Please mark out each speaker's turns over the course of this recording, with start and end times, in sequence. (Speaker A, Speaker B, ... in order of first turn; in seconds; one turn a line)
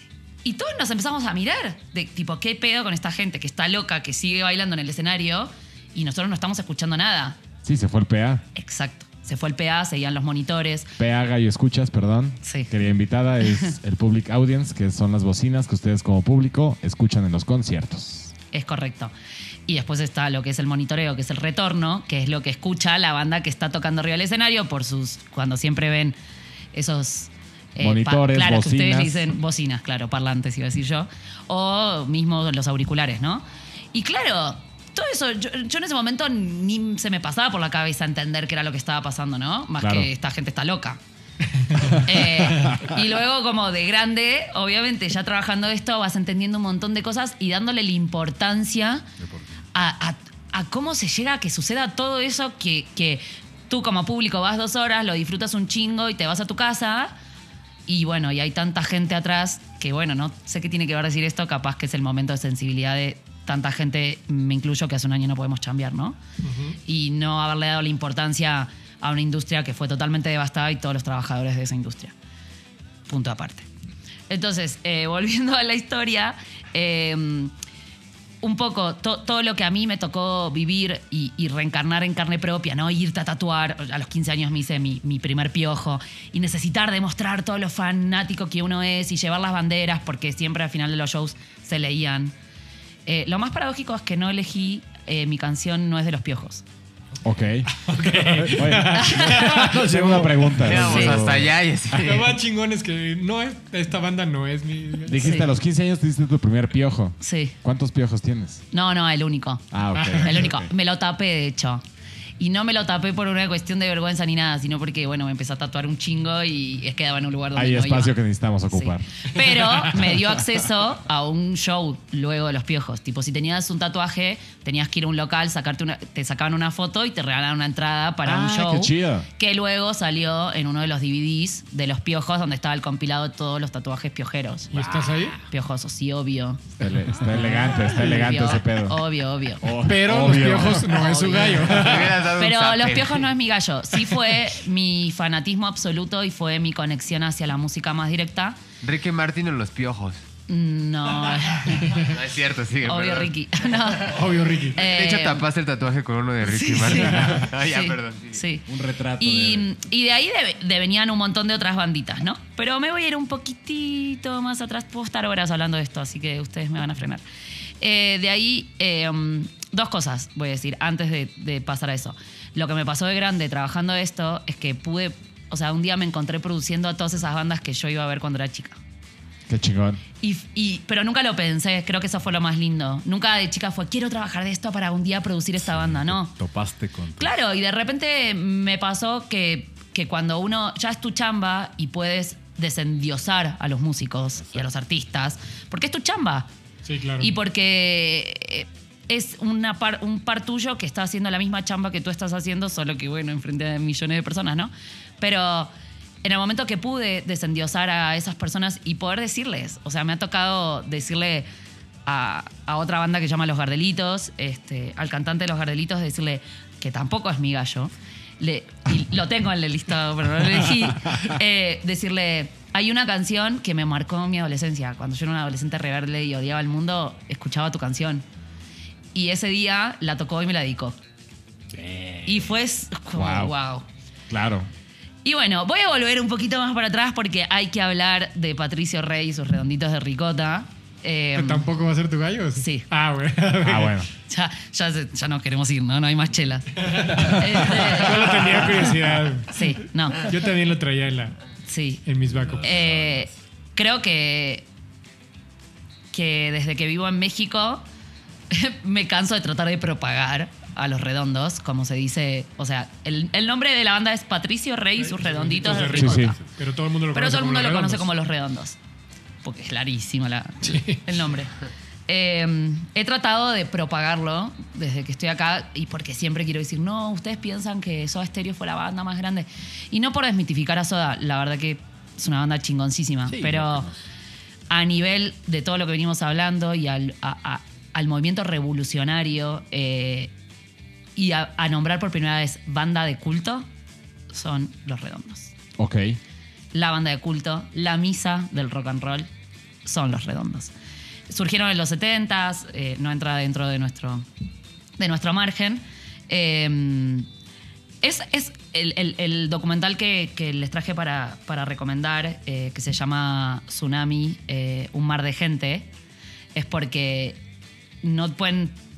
Speaker A: 0.5-7.4
Speaker B: 7.6-8.4
Speaker A: 8.6-10.9
Speaker B: 11.0-18.3
Speaker A: 12.4-12.7
Speaker A: 18.5-19.1
Speaker A: 19.7-26.2
Speaker A: 26.7-41.0
Speaker B: 27.8-29.4
Speaker B: 39.8-40.1
Speaker C: 41.6-42.0
Speaker B: 41.8-43.0
Speaker A: 41.9-49.1
Speaker D: 49.2-49.6
Speaker A: 49.8-57.1
Speaker A: 57.9-66.2
Speaker C: 66.4-66.8
Speaker A: 66.9-72.2
Speaker A: 73.1-73.7
Speaker A: 74.3-77.5
Speaker A: 78.4-92.3
Speaker A: 93.1-96.6
Speaker B: 97.2-102.2
Speaker C: 97.7-100.8
Speaker A: 99.0-99.5
Speaker E: 100.5-102.3
Speaker A: 100.8-101.2
Speaker C: 102.0-105.3
Speaker B: 105.0-108.7
Speaker A: 105.2-105.5
Speaker A: 107.2-107.5
Speaker A: 108.7-111.8
Speaker B: 109.7-110.7
Speaker C: 110.0-110.4
Speaker A: 112.4-118.2
Speaker B: 117.5-119.3
Speaker A: 118.7-136.6
Speaker C: 119.4-120.1
Speaker B: 128.2-129.3
Speaker C: 134.7-135.4
Speaker B: 136.8-139.1
Speaker A: 137.2-139.7
Speaker B: 139.6-141.1
Speaker C: 139.8-142.3
Speaker A: 140.7-148.6
Speaker E: 141.5-143.3
Speaker E: 148.8-150.2
Speaker A: 150.5-152.1
Speaker E: 151.3-158.4
Speaker A: 152.8-155.4
Speaker C: 154.1-154.8
Speaker A: 156.4-158.7
Speaker B: 158.7-159.7
Speaker A: 159.2-167.2
Speaker A: 167.8-178.8
Speaker B: 179.5-180.0
Speaker A: 180.2-186.3
Speaker D: 185.8-187.4
Speaker A: 187.2-196.5
Speaker C: 196.8-197.4
Speaker A: 197.2-205.7
Speaker A: 206.2-211.5
Speaker A: 212.1-228.2
Speaker A: 229.1-231.0
Speaker B: 231.7-232.2
Speaker A: 232.3-233.9
Speaker B: 233.1-233.5
Speaker B: 234.3-234.7
Speaker A: 235.2-241.7
Speaker C: 241.3-244.1
Speaker A: 242.6-242.9
Speaker B: 243.6-244.1
Speaker A: 244.3-248.9
Speaker C: 246.8-249.7
Speaker B: 247.5-247.8
Speaker A: 249.5-250.3
Speaker C: 250.2-251.4
Speaker A: 251.7-252.0
Speaker C: 252.1-252.8
Speaker D: 252.4-253.3
Speaker A: 252.6-254.7
Speaker A: 256.1-257.8
Speaker A: 258.5-266.4
Speaker C: 265.0-268.1
Speaker B: 265.9-266.4
Speaker A: 267.1-268.8
Speaker A: 269.4-271.6
Speaker C: 270.6-271.0
Speaker A: 272.1-283.9
Speaker D: 283.3-284.0
Speaker A: 284.7-290.3
Speaker A: 291.2-293.7
Speaker A: 294.3-295.5
Speaker B: 295.8-296.2
Speaker A: 296.7-299.3
Speaker A: 299.9-300.7
Speaker A: 301.3-304.3
Speaker A: 305.0-307.3
Speaker A: 308.0-315.9
Speaker A: 316.6-317.4
Speaker A: 318.0-318.8